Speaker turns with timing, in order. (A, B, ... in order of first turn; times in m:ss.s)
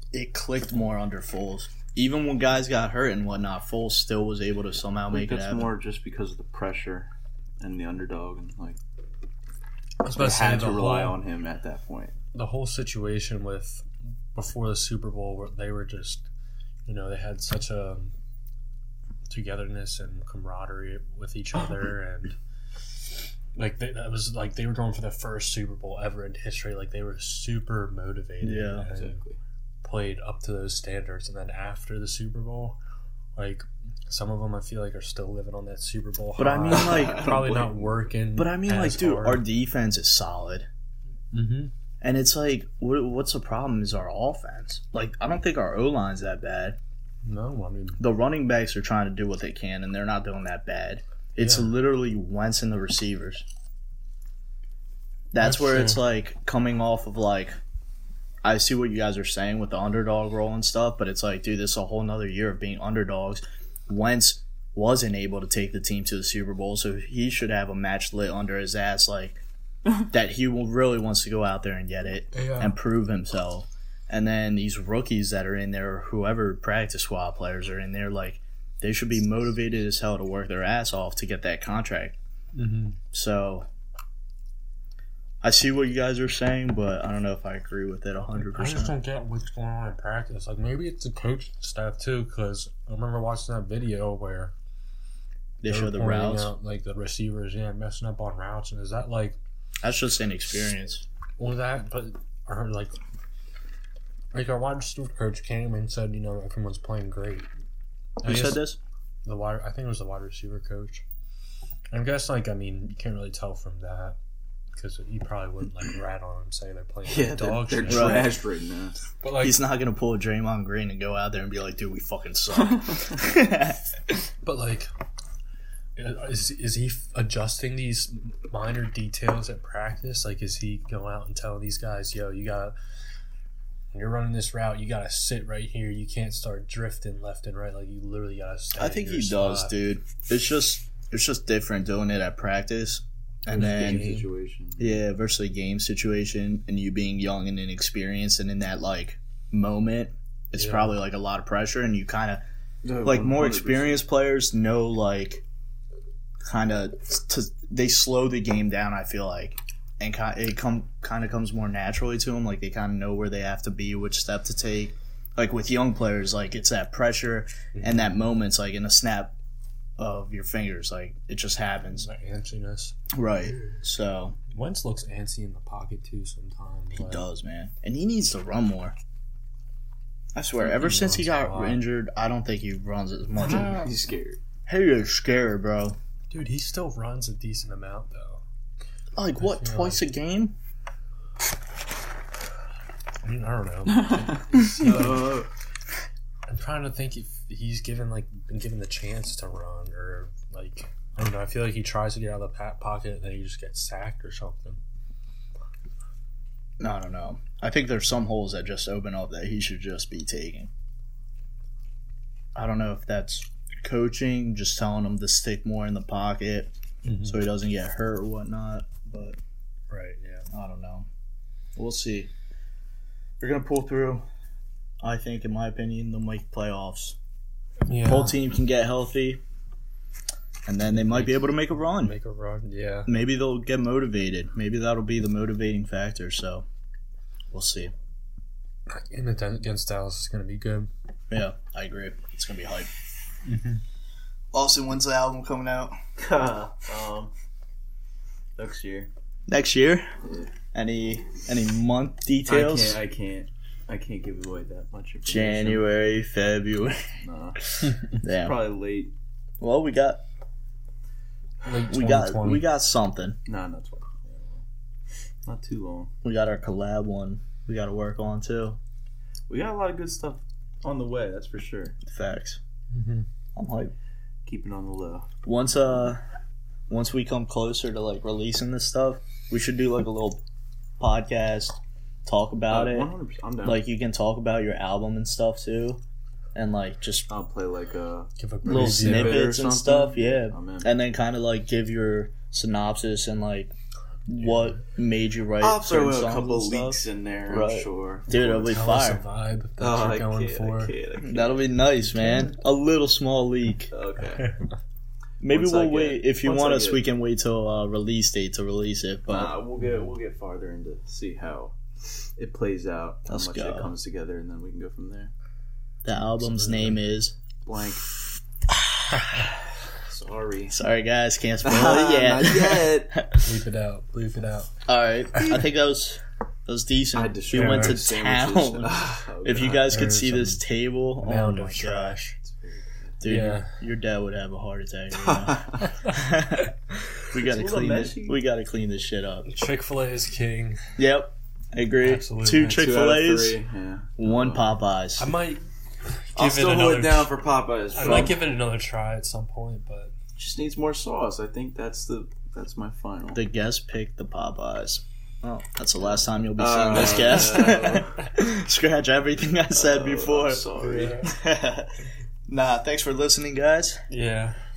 0:00.1-0:05.7 A
0:05.1-0:08.8 B
0:10.0-0:11.2 C
0:10.1-0:12.2 B
0:12.3-0:16.3 C
0:16.8-0:18.1 C
0:19.3-0:22.4 C
0:23.5-0:29.2 C
0:28.4-0:28.9 A
0:28.9-0:29.4 B
0:29.8-0:32.8 C
0:33.3-0:39.4 C
0:36.4-0:37.4 A
0:36.7-0:38.0 B
0:38.4-0:40.7 A
0:41.3-0:41.7 C
0:42.0-0:46.8 A
0:47.2-0:48.0 C
0:48.0-0:53.4 A
0:51.4-0:51.7 C
0:55.3-0:57.5 A
0:55.4-0:56.0 C
0:58.4-1:09.4 A
1:10.1-1:22.2 A
1:12.3-1:12.8 C
1:22.5-1:23.0 C
1:23.1-1:23.7 A
1:25.4-1:28.9 A
1:28.5-1:34.5 C
1:35.6-1:36.5 A
1:35.6-1:39.4 C
1:39.8-1:41.0 A
1:41.4-1:43.0 C
1:44.3-1:47.5 C
1:48.2-1:48.8 A
1:48.2-1:48.6 C
1:49.2-1:51.0 C
1:51.9-1:54.2 C
1:54.7-1:58.3 C
1:57.1-1:59.0 B
1:57.9-1:58.4 A
1:59.2-1:59.6 C
1:59.4-2:04.2 A
2:04.4-2:04.9 C
2:06.0-2:12.7 C
2:13.9-2:19.8 C
2:18.8-2:24.1 A
2:23.5-2:24.3 C
2:23.5-2:25.0 B
2:24.8-2:32.4 A
2:30.6-2:30.9 C
2:32.8-2:34.0 B
2:33.0-2:35.4 A
2:36.4-2:49.3 A
2:47.7-2:48.2 C
2:50.0-2:52.1 A
2:51.9-2:53.0 C
2:53.1-2:54.4 A
2:54.5-2:57.2 C
2:56.9-2:59.0 A
3:00.3-3:03.9 A
3:00.6-3:01.8 C
3:03.4-3:04.4 B
3:04.6-3:06.0 A
3:06.3-3:08.4 C
3:09.2-3:10.6 A
3:09.4-3:10.0 C
3:13.2-3:15.4 C
3:14.5-3:15.5 B
3:16.5-3:24.8 C
3:26.8-3:30.7 A
3:32.5-3:36.7 A
3:37.0-3:37.5 C
3:37.2-3:39.4 A
3:39.9-3:40.5 C
3:40.5-3:41.1 A
3:41.8-3:42.3 A
3:43.4-3:44.2 A
3:45.0-3:47.2 A
3:47.8-3:48.4 C
3:48.0-3:49.4 A
3:50.6-3:52.1 A
3:50.9-3:53.1 C
3:53.0-3:56.6 A
3:57.5-3:57.9 A
3:58.9-4:00.9 C
4:01.3-4:02.9 A
4:03.4-4:03.8 C
4:04.5-4:06.0 A
4:06.2-4:07.3 B
4:08.6-4:09.1 B
4:09.5-4:10.1 A
4:10.2-4:10.5 B
4:10.7-4:13.0 A
4:12.5-4:15.8 B
4:15.2-4:17.1 A
4:17.2-4:19.1 B
4:18.1-4:18.6 A
4:19.6-4:20.2 A
4:21.6-4:22.6 C
4:21.9-4:23.4 A
4:23.4-4:24.6 B
4:25.4-4:26.1 B
4:26.2-4:28.8 A
4:29.5-4:32.0 B
4:32.0-4:32.6 A
4:32.9-4:33.3 C
4:33.5-4:33.9 A
4:34.4-4:35.3 B
4:35.4-4:36.2 A
4:36.9-4:40.4 A
4:41.0-4:43.1 A
4:42.7-4:43.8 B
4:43.6-4:46.0 A
4:46.5-4:47.3 A
4:47.3-4:50.9 B
4:48.4-4:49.5 C
4:48.7-4:53.7 A
4:54.3-4:59.2 A
4:54.4-4:54.8 C
4:55.6-4:58.4 B
4:58.3-5:00.9 C
4:59.8-5:01.6 B
5:01.2-5:03.9 A
5:02.0-5:02.6 C
5:03.9-5:04.5 B
5:05.4-5:09.5 A
5:05.5-5:07.0 B
5:09.3-5:15.3 B
5:09.8-5:10.1 C
5:13.3-5:13.9 A
5:16.0-5:17.4 A
5:16.4-5:17.0 C
5:17.6-5:18.1 B
5:18.7-5:19.5 A
5:19.9-5:20.8 B
5:20.7-5:23.6 A
5:21.6-5:23.2 B
5:23.4-5:24.7 C
5:24.8-5:32.2 A
5:27.1-5:29.9 B
5:27.5-5:28.0 C
5:29.6-5:30.6 C
5:31.2-5:32.4 C
5:32.4-5:33.2 B
5:33.2-5:39.5 A
5:33.2-5:33.8 C
5:35.2-5:35.9 B
5:37.3-5:38.4 B
5:39.4-5:40.9 C
5:41.0-5:43.6 A
5:42.0-5:42.8 C
5:42.6-5:44.7 B
5:44.2-5:45.3 A
5:45.2-5:47.3 C
5:46.4-5:48.4 B
5:47.9-5:50.1 C
5:50.4-5:53.4 B
5:53.3-6:00.6 A
5:56.6-5:58.2 B
5:59.7-6:01.3 B
6:00.8-6:01.3 C
6:01.2-6:04.0 A
6:04.1-6:04.6 C